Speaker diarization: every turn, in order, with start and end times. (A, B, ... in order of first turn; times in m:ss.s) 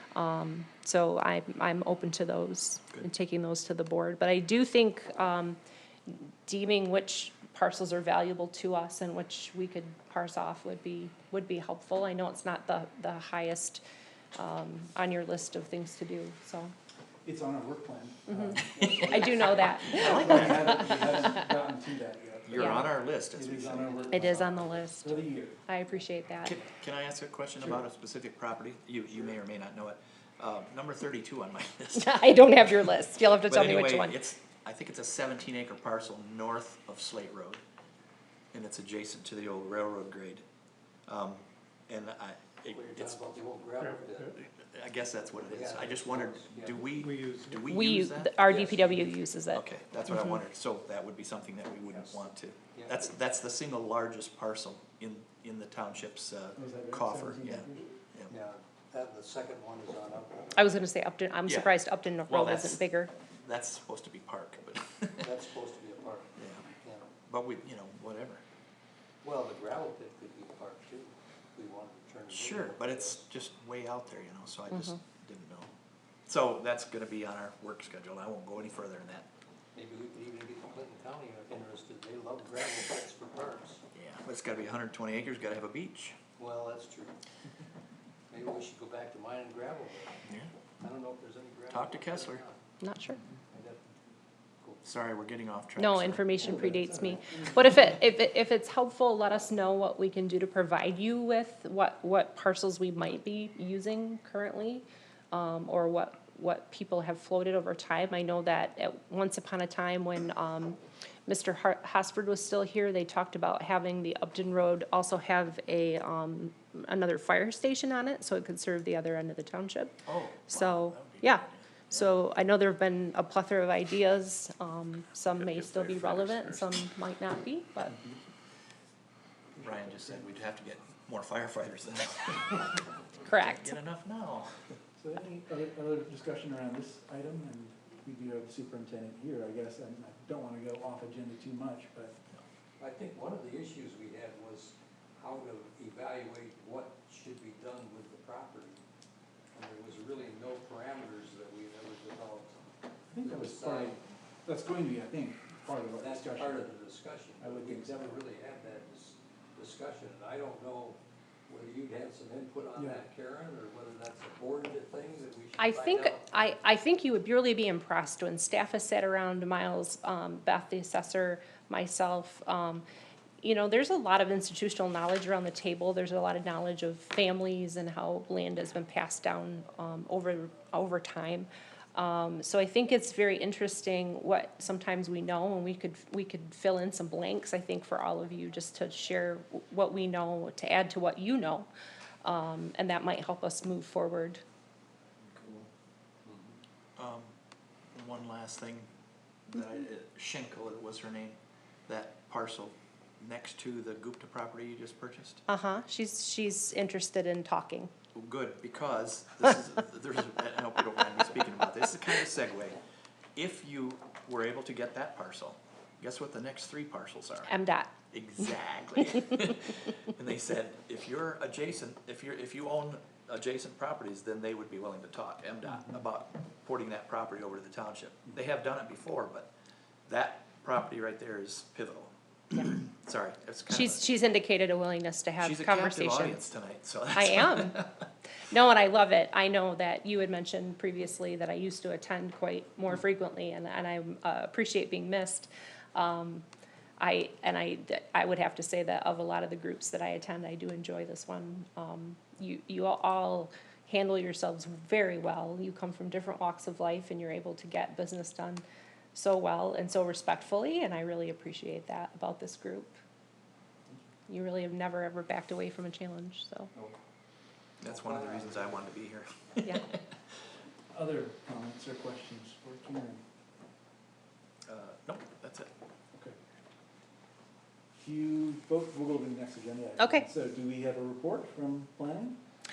0:00.1-0:13.8 A
0:14.4-0:16.7 A
0:17.2-0:25.6 B
0:18.3-0:21.4 A
0:18.6-0:21.2 C
0:18.9-0:19.4 D
0:22.4-0:24.4 C
0:22.5-0:22.9 A
0:24.1-0:26.6 A
0:26.4-0:37.6 C
0:32.0-0:34.2 A
0:38.5-0:40.4 C
0:41.1-0:43.2 C
0:42.7-0:44.4 D
0:44.3-0:48.4 C
0:45.4-0:46.8 D
0:47.0-0:47.4 B
0:47.7-0:49.6 A
0:48.4-0:49.1 D
0:49.5-0:58.3 C
0:52.7-0:53.1 D
0:56.6-0:58.0 B
0:58.3-1:00.8 D
1:00.6-1:03.1 A
1:01.5-1:01.7 C
1:02.3-1:05.3 C
1:05.2-1:07.1 D
1:06.4-1:06.7 C
1:07.3-1:08.4 C
1:09.2-1:13.2 D
1:12.3-1:15.7 C
1:14.7-1:15.0 A
1:16.3-1:19.3 C
1:19.8-1:23.8 D
1:23.9-1:26.2 C
1:26.4-1:27.2 D
1:28.3-1:30.2 D
1:30.8-1:32.6 D
1:31.7-1:32.4 C
1:32.8-1:33.2 A
1:33.5-1:34.8 D
1:34.8-1:36.6 C
1:35.8-2:08.0 A
1:36.4-1:37.8 B
2:00.1-2:02.1 C
2:05.4-2:06.8 C
2:08.0-2:08.2 B
2:09.6-2:12.8 C
2:09.6-2:10.3 B
2:13.3-2:13.8 A
2:13.3-2:14.8 C
2:15.0-2:22.2 B
2:22.8-2:28.8 D
2:29.5-2:32.7 D
2:33.1-2:36.7 B
2:33.2-2:34.0 D
2:35.9-2:46.3 D
2:37.4-2:38.2 B
2:42.8-2:43.0 B
2:45.6-2:52.8 A
2:53.4-3:11.7 A
3:12.2-3:14.4 A
3:16.2-3:16.6 D
3:17.0-3:17.3 C
3:17.9-3:18.9 C
3:19.5-3:25.4 C
3:25.5-3:27.9 A
3:28.1-3:32.8 C
3:33.4-3:37.5 C
3:37.5-3:37.9 A
3:38.1-3:49.5 C
3:45.7-3:46.0 B
3:50.1-3:54.0 C
3:53.7-3:56.4 A
3:55.4-3:58.1 C
3:57.1-3:57.8 A
3:58.4-4:06.4 A
4:07.0-4:23.0 A
4:24.3-4:26.7 A
4:27.8-4:29.0 D
4:27.8-4:30.0 C
4:30.9-4:33.2 B
4:34.7-4:35.7 C
4:38.0-4:42.4 B
4:40.0-4:40.3 A